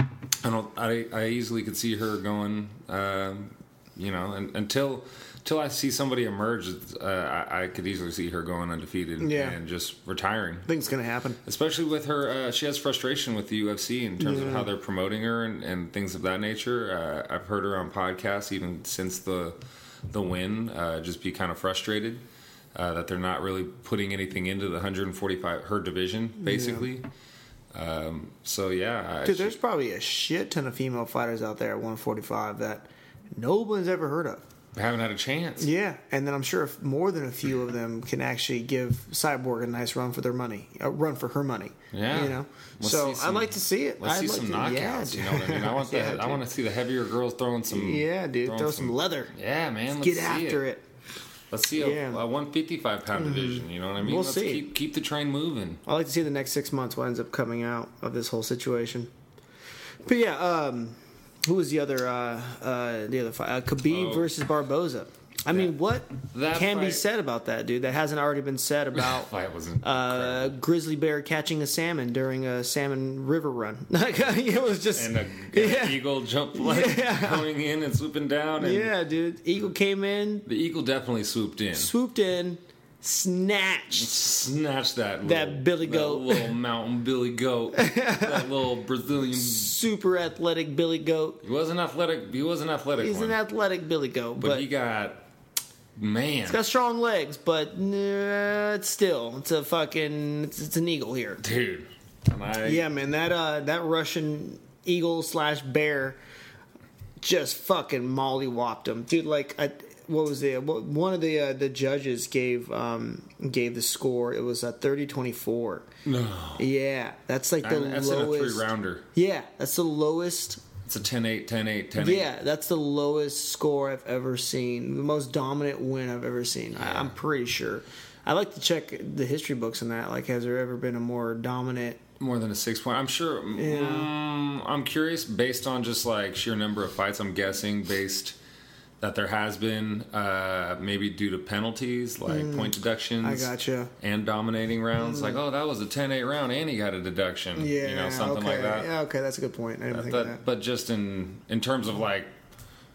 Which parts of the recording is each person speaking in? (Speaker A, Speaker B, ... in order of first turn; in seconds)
Speaker A: 0.4-10.7, 11.4-19.6, 20.1-27.1, 27.7-29.6, 34.7-35.7, 41.9-50.6, 51.5-55.8, 63.9-64.3, 66.3-67.0, 68.9-70.5, 74.9-78.9, 80.5-81.9, 83.9-89.7, 91.4-93.4, 94.4-95.2, 96.0-96.6, 101.4-102.8, 116.0-116.7, 117.6-119.1, 120.8-122.3, 126.8-127.1, 132.2-138.3, 139.0-148.9, 149.9-152.3
Speaker B: 9.2-9.6, 10.7-11.4, 14.2-14.7, 26.4-26.9, 29.2-34.4, 35.6-46.4, 47.7-49.3, 50.0-50.8, 51.8-52.2, 53.1-54.7, 55.9-59.1, 60.0-69.3, 69.8-76.0, 76.5-77.5, 78.6-80.5, 81.7-84.2, 85.2-86.5, 87.7-88.5, 89.3-91.4, 93.0-94.7, 96.4-101.4, 102.6-106.2, 107.2-115.9, 116.6-120.6, 122.0-132.0, 133.5-134.1, 142.3-143.9, 145.0-145.4, 147.6-150.4